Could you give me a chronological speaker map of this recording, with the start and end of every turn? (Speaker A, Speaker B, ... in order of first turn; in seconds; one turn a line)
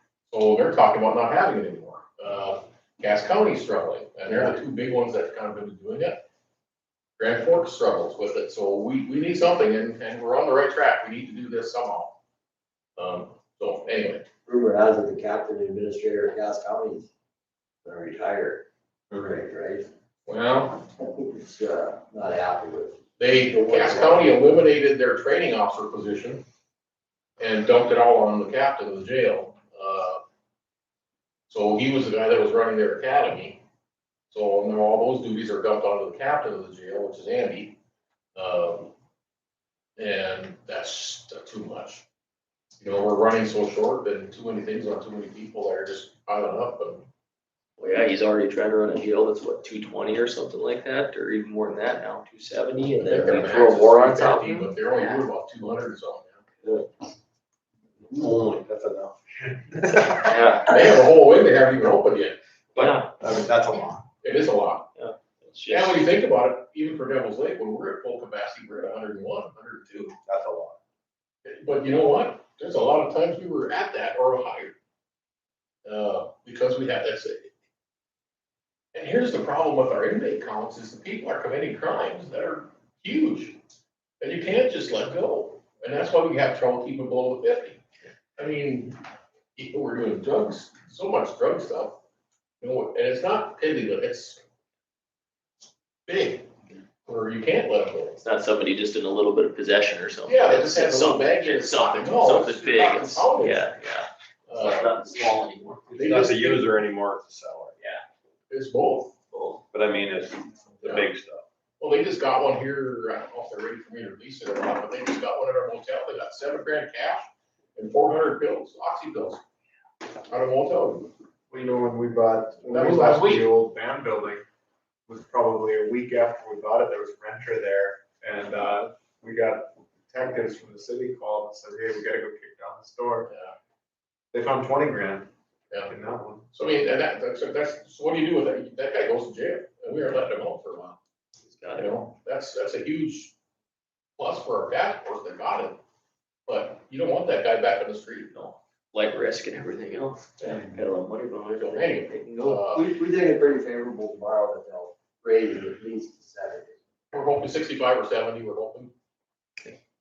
Speaker A: 0.3-6.2
Speaker B: 4.3-4.5
Speaker A: 7.2-12.2
Speaker A: 13.0-14.2
Speaker B: 14.5-17.1
Speaker B: 17.8-19.9
Speaker A: 20.3-20.8
Speaker B: 21.1-23.0
Speaker A: 23.2-26.4
Speaker B: 23.5-24.3
Speaker A: 27.4-30.2
Speaker A: 31.5-33.6
Speaker A: 34.3-37.8
Speaker A: 38.4-38.9
Speaker A: 40.0-42.0
Speaker A: 42.8-47.1
Speaker C: 47.8-54.7
Speaker A: 53.0-56.4
Speaker D: 58.1-60.4
Speaker C: 60.2-60.7
Speaker A: 60.7-62.4
Speaker C: 62.8-63.1
Speaker D: 62.8-64.0
Speaker A: 64.2-64.9
Speaker C: 65.0-66.0
Speaker A: 65.7-70.1
Speaker D: 70.2-70.8
Speaker A: 71.5-74.8
Speaker A: 75.8-77.5
Speaker A: 78.9-83.6
Speaker A: 84.2-87.8
Speaker A: 88.4-89.0
Speaker A: 89.6-92.0
Speaker A: 92.6-94.4
Speaker A: 96.1-96.5
Speaker A: 97.0-98.2
Speaker C: 98.2-105.9
Speaker A: 100.2-103.7
Speaker A: 104.5-105.0
Speaker D: 105.9-106.6
Speaker A: 106.0-106.7
Speaker E: 106.2-107.8
Speaker A: 108.5-109.1
Speaker C: 109.3-109.6
Speaker E: 109.7-111.4
Speaker A: 110.8-111.1
Speaker A: 111.8-119.4
Speaker A: 120.3-121.1
Speaker D: 121.5-124.4
Speaker A: 122.7-123.5
Speaker D: 125.1-133.3
Speaker A: 133.3-133.5
Speaker D: 134.3-135.3
Speaker D: 135.8-136.5
Speaker A: 136.5-141.0
Speaker C: 141.5-141.9
Speaker A: 141.8-143.3
Speaker A: 144.2-145.8
Speaker A: 146.5-148.3
Speaker C: 148.3-152.7
Speaker A: 151.5-152.8
Speaker B: 152.7-156.8
Speaker A: 157.1-158.9